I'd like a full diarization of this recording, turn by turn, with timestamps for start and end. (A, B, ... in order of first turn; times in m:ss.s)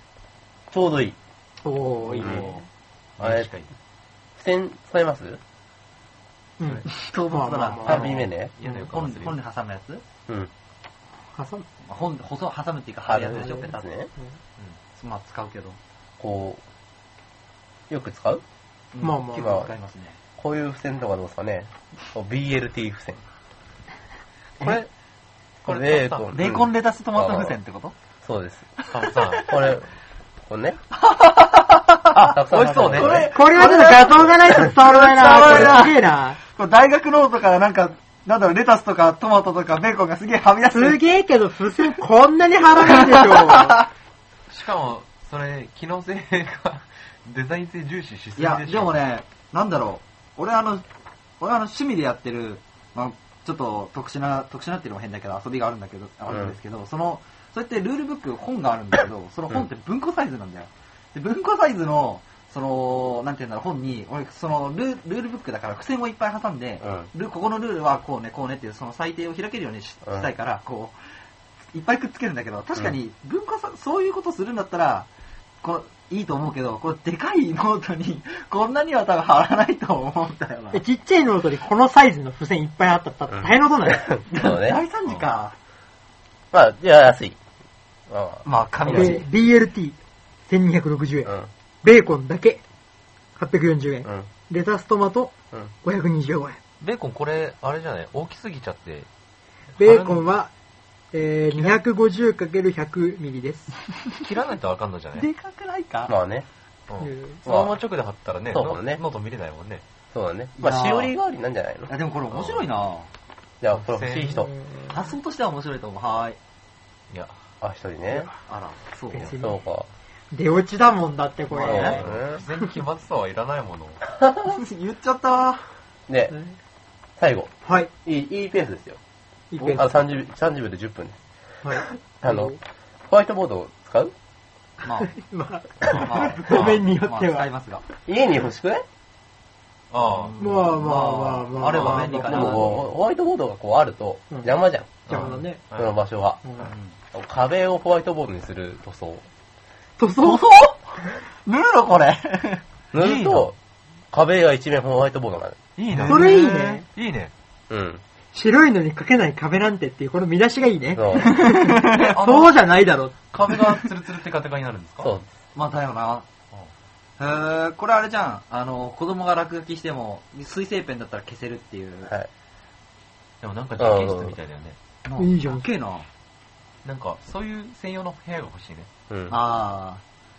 0:00.7-0:01.2 A
0:01.6-0:02.6 B
0:02.0-0:02.6 C
0:02.2-0:02.5 A
0:03.2-0:03.7 C
0:03.2-0:03.5 A
0:04.4-0:05.4 A
0:06.6-0:08.0 B
0:06.8-0:10.0 D
0:07.8-0:08.5 A
0:08.0-0:09.4 C
0:11.3-0:11.7 B
0:11.8-0:13.8 D
0:13.0-0:14.1 A
0:13.3-0:13.7 B
0:14.9-0:15.8 D
0:16.2-0:16.6 A
0:17.9-0:18.4 A
0:18.9-0:20.2 D
0:19.0-0:19.5 B
0:19.4-0:19.7 A
0:20.4-0:23.2 A
0:24.6-0:24.8 A
0:25.6-0:27.6 A
0:25.6-0:26.3 C
0:26.3-0:27.9 D
0:28.2-0:28.6 A
0:28.8-0:29.8 D
0:28.9-0:29.5 C
0:29.4-0:29.9 A
0:30.5-0:30.8 A
0:31.0-0:41.0 D
0:32.2-0:33.3 A
0:32.6-0:33.3 C
0:33.2-0:36.4 B
0:40.6-0:43.9 B
0:42.9-0:43.7 D
0:44.5-0:49.0 C
0:48.4-0:50.8 D
0:51.4-1:11.0 D
0:56.3-0:56.5 A
1:06.8-1:07.1 A
1:11.7-1:15.1 D
1:15.6-1:20.8 D
1:20.7-1:24.1 B
1:23.3-1:24.8 A
1:24.3-1:25.5 D
1:26.5-1:27.4 A
1:28.1-1:29.2 A
1:28.4-1:29.3 D
1:28.9-1:30.0 B
1:30.5-1:32.6 B
1:31.2-1:31.5 A
1:33.4-1:36.6 B
1:36.8-1:39.1 C
1:39.8-1:40.3 C
1:39.8-1:40.5 B
1:41.1-1:43.9 B
1:44.2-1:45.3 C
1:45.1-1:46.1 D
1:46.1-1:46.5 A
1:46.9-1:49.8 C
1:47.0-1:47.4 B
1:47.4-1:47.7 A
1:48.5-1:49.0 A
1:50.1-1:52.6 A
1:50.6-1:51.1 D
1:51.9-1:53.1 D
1:53.6-1:54.5 A
1:53.7-1:54.5 C
1:54.6-1:54.9 B
1:54.9-1:56.4 D
1:57.1-1:57.4 C
1:57.6-1:58.3 A
1:58.5-1:59.4 D
1:59.1-1:59.6 B
1:59.2-1:59.9 A
2:00.3-2:02.0 B
2:01.5-2:02.0 D
2:01.6-2:02.4 A
2:01.8-2:04.0 C
2:04.4-2:05.6 D
2:06.1-2:06.4 A
2:07.2-2:09.0 A
2:07.6-2:07.9 B
2:09.5-2:10.0 B
2:09.6-2:11.2 A
2:11.6-2:12.6 B
2:11.7-2:14.1 A
2:14.8-2:15.1 D
2:14.8-2:17.5 B
2:15.8-2:17.8 D
2:18.0-2:18.8 A
2:19.9-2:20.5 C
2:20.1-2:22.9 D
2:20.4-2:22.8 B
2:22.0-2:26.4 A
2:25.1-2:25.9 C
2:25.1-2:25.6 B
2:26.4-2:26.7 B
2:26.6-2:26.9 D
2:27.1-2:29.2 A
2:30.0-2:30.5 B
2:30.2-2:30.8 D
2:31.3-2:33.4 D
2:32.9-2:33.6 A
2:34.1-2:35.6 A
2:35.8-2:36.8 D
2:35.9-2:37.3 C
2:36.0-2:36.8 B
2:37.7-2:38.0 A
2:38.3-2:43.1 B
2:41.0-2:41.3 A
2:41.4-2:42.2 D
2:42.0-2:42.8 C
2:43.3-2:45.1 C
2:45.0-2:45.3 A
2:45.5-2:46.3 D
2:47.2-2:52.1 D
2:53.4-2:54.8 C
2:53.8-2:54.4 A
2:55.0-2:56.1 D
2:55.2-2:55.6 B
2:56.8-2:58.9 C
2:59.1-2:59.4 A
2:59.3-3:00.0 D